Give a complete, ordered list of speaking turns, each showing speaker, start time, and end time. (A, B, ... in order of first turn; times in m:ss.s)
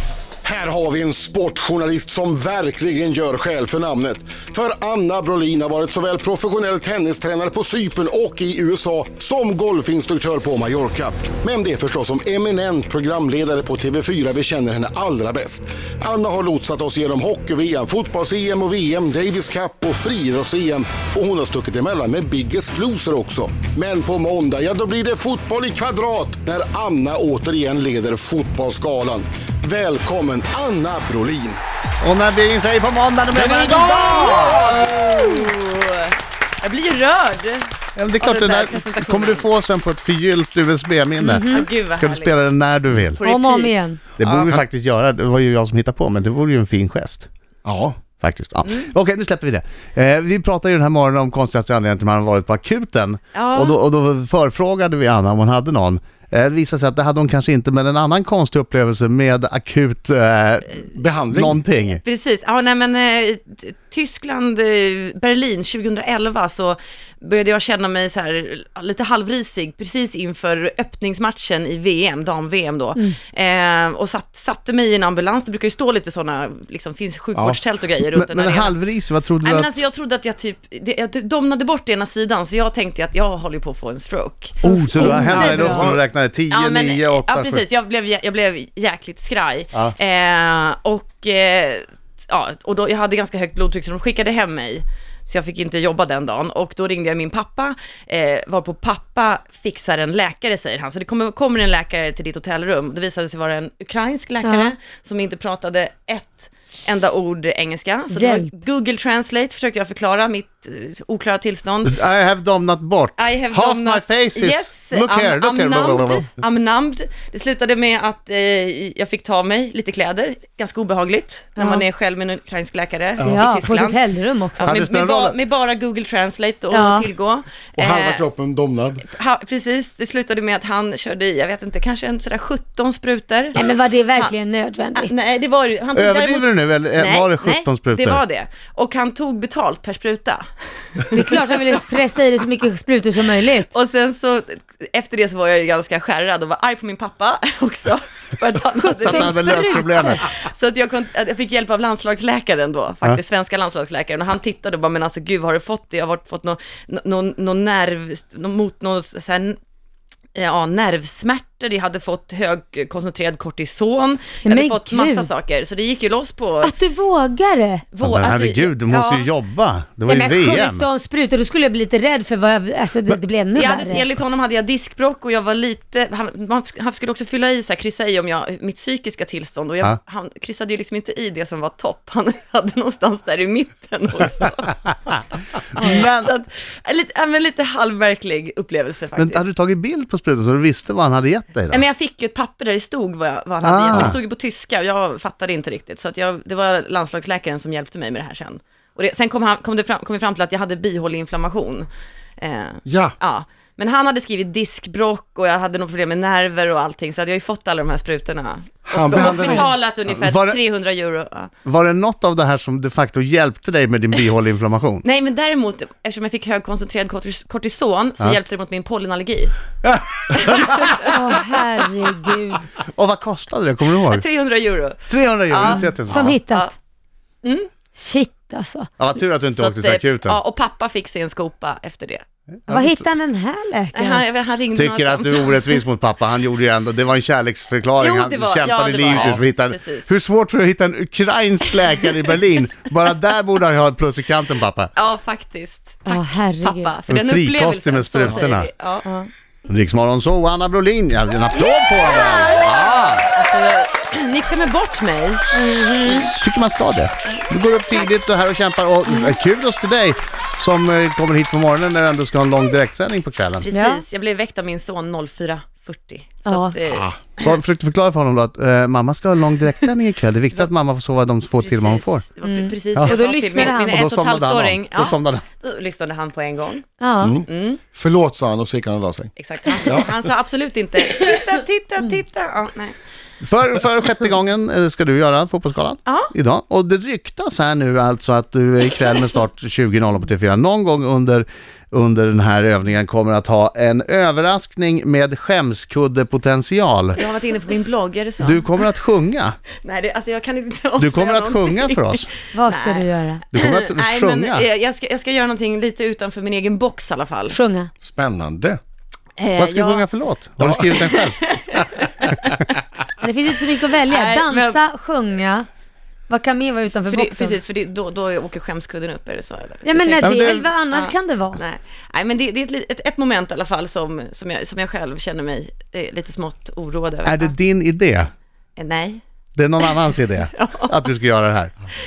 0:00.4-0:31.6 A
0:32.0-0:34.7 B
0:33.3-0:35.5 A
0:34.0-0:37.7 C
0:38.0-0:43.2 B
0:38.2-0:39.5 C
0:41.2-0:41.7 D
0:41.3-0:42.5 C
0:43.2-0:44.6 C
0:43.2-0:44.0 D
0:44.2-0:47.3 B
0:47.6-0:48.0 A
0:48.2-1:02.0 B
0:53.3-0:53.8 C
1:00.9-1:01.6 A
1:02.0-1:18.8 C
1:18.1-1:19.8 B
1:19.4-1:51.9 C
1:24.6-1:27.6 B
1:24.6-1:26.0 D
1:44.4-1:44.7 D
1:48.1-1:48.5 D
1:51.8-1:56.3 B
1:53.2-2:04.0 C
2:01.6-2:01.8 D
2:03.2-2:03.6 A
2:03.2-2:04.8 D
2:04.5-2:08.3 C
2:04.7-2:05.4 B
2:06.7-2:07.1 D
2:07.8-2:09.1 A
2:09.1-2:13.6 C
2:13.5-2:15.1 D
2:15.0-2:21.5 C
2:16.0-2:18.2 B
2:21.1-2:23.7 D
2:23.7-2:39.6 C
2:28.8-2:30.3 D
2:29.0-2:30.3 B
2:40.4-2:46.8 C
2:44.4-2:45.3 D
2:46.6-2:47.8 D
2:47.9-2:49.3 C
2:48.0-2:50.9 B
2:50.1-2:54.0 D
2:53.6-3:05.0 C
3:05.8-3:06.3 B
3:05.8-3:09.4 C
3:09.2-3:11.8 B
3:11.7-3:21.9 C
3:13.6-3:14.2 B
3:22.4-3:31.5 C
3:22.9-3:23.1 A
3:28.9-3:29.7 A
3:29.2-3:29.6 D
3:30.2-3:30.6 B
3:31.6-3:35.0 B
3:35.0-3:39.5 C
3:39.8-3:40.9 B
3:40.4-3:41.2 C
3:41.0-3:42.7 D
3:42.9-3:44.2 B
3:44.0-3:46.7 C
3:45.1-3:46.4 B
3:45.6-3:46.8 D
3:47.4-3:47.7 C
3:47.9-3:48.9 D
3:49.0-3:50.4 B
3:49.5-3:52.2 C
3:52.7-3:53.0 B
3:52.7-3:54.2 D
3:53.9-3:55.8 C
3:54.7-4:04.9 B
3:58.0-4:00.2 C
4:05.0-4:09.1 C
4:06.1-4:06.9 D
4:07.1-4:08.7 B
4:09.0-4:09.3 D
4:09.7-4:13.3 B
4:12.0-4:15.6 C
4:12.1-4:12.5 D
4:15.5-4:16.3 D
4:16.2-4:23.7 B
4:17.3-4:18.1 C
4:19.1-4:19.3 D
4:23.6-4:27.5 C
4:23.7-4:24.0 D
4:26.5-4:26.8 D
4:26.9-4:27.2 A
4:27.4-4:32.2 B
4:31.6-4:36.9 C
4:32.4-4:34.0 D
4:33.0-4:35.4 B
4:37.0-4:37.4 D
4:37.2-4:39.3 A
4:37.4-4:37.8 C
4:39.4-4:43.0 C
4:39.8-4:40.2 A
4:43.4-4:57.2 B
4:46.1-4:46.3 C
4:57.2-4:58.8 C
4:58.4-4:59.6 B
4:59.8-5:07.6 C
5:01.0-5:02.3 B
5:02.5-5:03.4 D
5:03.5-5:04.7 B
5:07.5-5:07.9 D
5:08.0-5:08.8 A
5:09.4-5:10.1 C
5:09.6-5:11.4 B
5:10.9-5:12.7 C
5:13.2-5:15.7 D
5:14.0-5:14.8 C
5:16.3-5:17.6 D
5:17.1-5:27.5 C
5:19.8-5:21.6 D
5:20.2-5:20.7 B
5:27.2-5:28.3 B
5:28.8-5:29.2 C
5:29.6-5:31.7 B
5:30.5-5:31.0 C